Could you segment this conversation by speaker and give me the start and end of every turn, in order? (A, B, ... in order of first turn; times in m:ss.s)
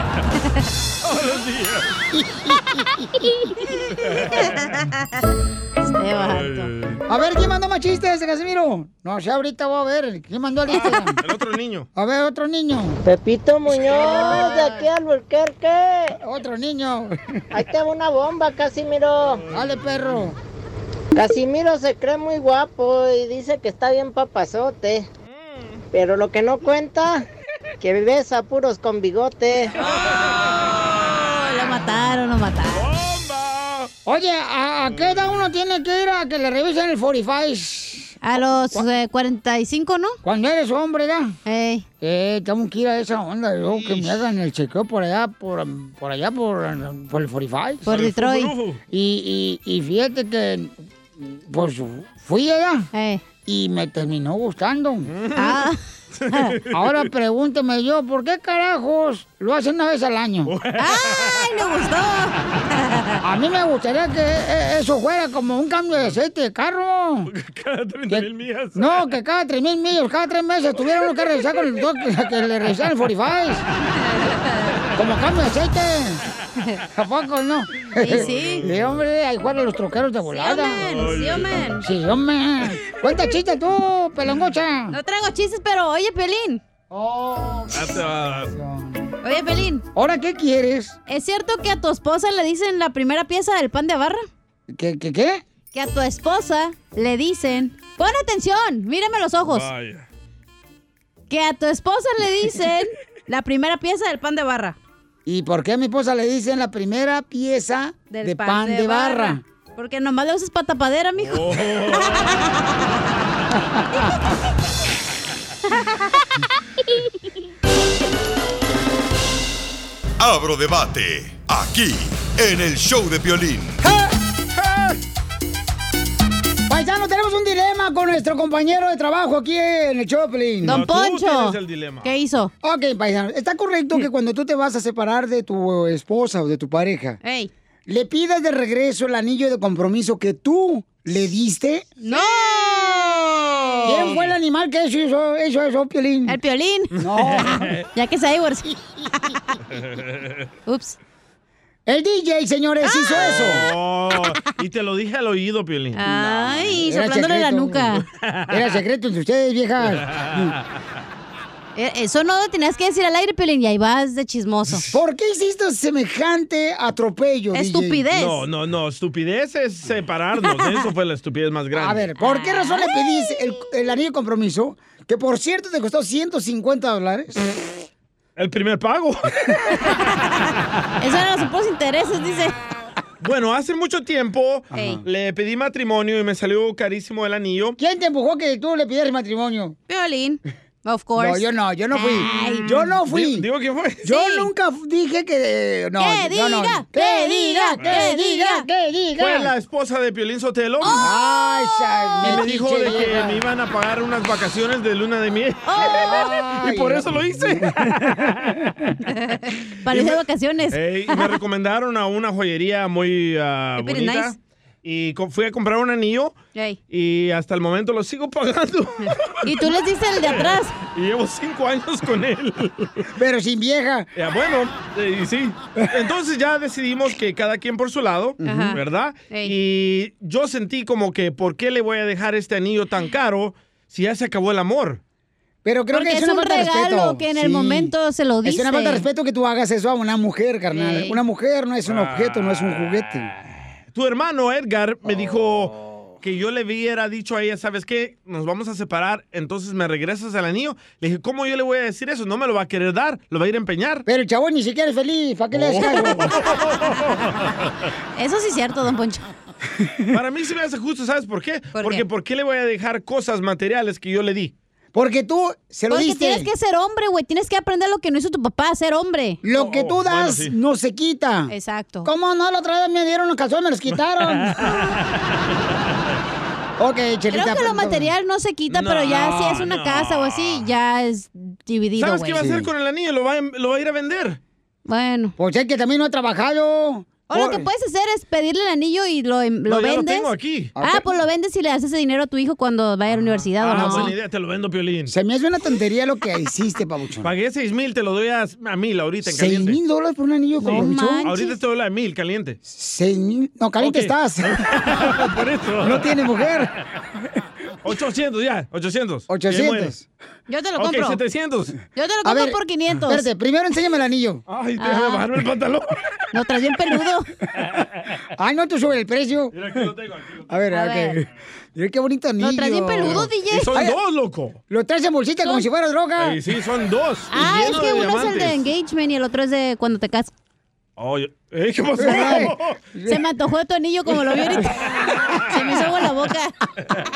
0:01.0-0:01.9 A
0:02.1-0:03.2 B
0:04.0-0:04.8 A
0:05.9-0:06.7 C
0:06.2-0:07.0 A
0:07.1-0:11.2 B
0:10.7-0:11.9 A
0:11.9-0:13.0 B
0:13.0-0:16.2 D
0:13.8-0:14.8 C
0:16.2-0:17.4 B
0:17.5-0:19.4 D
0:19.5-0:20.4 B
0:21.1-0:25.1 D
0:25.2-0:25.8 A
0:25.9-0:27.2 D
0:27.8-0:29.7 D
0:29.9-0:31.0 A
0:31.1-0:32.9 C
0:32.7-0:33.9 A
0:34.0-0:38.2 B
0:34.9-0:35.4 A
0:38.2-0:40.2 C
0:40.2-0:41.4 B
0:41.4-0:41.8 C
0:42.0-0:47.9 B
0:43.6-0:44.2 A
0:47.8-0:48.5 C
0:47.9-0:48.8 A
0:48.9-0:52.9 B
0:52.9-0:53.2 C
0:53.4-0:55.1 B
0:55.1-0:57.0 A
0:55.4-0:55.8 C
0:56.3-0:56.5 C
0:56.7-1:00.5 B
1:00.4-1:01.5 A
1:00.8-1:03.1 C
1:03.2-1:07.3 B
1:07.3-1:08.8 A
1:08.1-1:13.6 B
1:14.0-1:14.8 C
1:14.9-1:16.2 B
1:16.9-1:20.9 B
1:18.0-1:18.7 C
1:18.1-1:18.7 A
1:20.3-1:21.8 C
1:20.9-1:21.6 A
1:21.8-1:25.0 B
1:24.9-1:26.6 C
1:26.9-1:29.0 B
1:27.7-1:28.5 A
1:29.2-1:29.8 C
1:29.9-1:31.0 B
1:31.1-1:34.2 C
1:34.7-1:35.4 B
1:35.7-1:39.7 C
1:39.4-1:40.0 A
1:41.3-1:44.8 C
1:45.2-1:49.4 B
1:48.1-1:52.6 C
1:51.2-1:52.4 A
2:00.2-2:03.8 E
2:04.6-2:04.9 A
2:06.7-2:10.8 B
2:10.6-2:12.5 C
2:10.6-2:12.1 A
2:12.6-2:17.2 B
2:17.2-2:17.5 C
2:17.9-2:21.9 B
2:22.0-2:24.2 C
2:23.8-2:26.4 B
2:26.3-2:29.4 C
2:27.0-2:27.8 B
2:27.0-2:27.8 A
2:29.7-2:30.4 A
2:30.6-2:31.0 C
2:31.8-2:33.7 B
2:32.8-2:33.4 C
2:33.2-2:36.8 A
2:35.9-2:38.0 C
2:36.8-2:37.9 B
2:38.1-2:38.6 A
2:38.5-2:40.4 B
2:39.9-2:40.6 A
2:41.7-2:44.9 C
2:44.9-2:48.0 B
2:47.5-2:48.4 C
2:48.1-2:52.1 A
2:51.7-2:57.6 B
2:52.2-2:52.9 C
2:58.4-2:59.3 A
2:59.8-3:00.2 C
3:01.0-3:02.6 C
3:03.2-3:07.8 A
3:04.7-3:05.0 C
3:07.8-3:09.8 B
3:09.9-3:12.7 C
3:11.2-3:13.5 B
3:13.0-3:14.0 A
3:14.0-3:19.5 B
3:14.0-3:14.5 C
3:16.0-3:18.7 C
3:19.2-3:21.1 A
3:20.8-3:21.1 C
3:20.9-3:23.4 B
3:22.2-3:28.6 A
3:25.6-3:26.4 C
3:25.8-3:27.8 B
3:29.1-3:31.3 C
3:29.9-3:30.2 A
3:30.7-3:36.4 A
3:33.8-3:34.3 C
3:36.5-3:36.8 C
3:36.9-3:39.5 A
3:39.4-3:40.8 C
3:40.2-3:43.0 A
3:43.1-3:44.1 B
3:44.2-3:55.0 A
3:48.4-3:48.7 B
3:48.4-3:49.5 C
3:55.6-3:57.9 B
3:55.9-3:59.0 C
3:58.4-4:03.3 B
4:00.7-4:01.2 C
4:01.8-4:03.2 A
4:03.9-4:14.0 A
4:14.0-4:16.4 B
4:15.6-4:17.7 A
4:18.2-4:19.3 C
4:19.8-4:20.2 B
4:20.1-4:24.5 A
4:21.7-4:22.0 C
4:24.9-4:26.5 B
4:25.9-4:29.4 C
4:29.4-4:34.8 B
4:29.5-4:30.5 A
4:31.5-4:32.1 C
4:34.4-4:35.4 A
4:36.8-4:38.1 B
4:37.3-4:42.5 C
4:38.7-4:40.7 A
4:42.0-4:44.4 A
4:42.4-4:42.7 B
4:44.9-4:45.3 C
4:45.4-4:47.7 B
4:47.3-4:54.1 C
4:49.7-4:50.7 A
4:50.8-4:51.1 B
4:53.1-4:55.1 A
4:53.7-4:54.1 B
4:55.1-4:57.3 B
4:57.2-4:59.8 A
4:59.2-5:01.3 B
5:00.6-5:01.5 C
5:01.2-5:02.6 A
5:02.6-5:05.3 B
5:03.8-5:06.1 A
5:05.8-5:06.7 B
5:07.8-5:09.9 A
5:09.3-5:10.0 B
5:10.5-5:11.2 C
5:10.8-5:11.8 A
5:11.9-5:13.2 C
5:12.2-5:14.4 B
5:14.5-5:15.9 A
5:14.8-5:15.2 C
5:16.3-5:17.3 C
5:17.6-5:17.9 A
5:18.4-5:19.9 B
5:19.5-5:20.6 A
5:20.5-5:24.0 B
5:20.7-5:21.2 C
5:22.4-5:23.7 C
5:23.0-5:24.6 A
5:24.7-5:26.4 B
5:26.2-5:28.6 A
5:27.3-5:30.3 C
5:31.0-5:32.8 A
5:32.0-5:33.2 B
5:32.1-5:32.4 C
5:33.0-5:36.5 C
5:34.5-5:35.5 A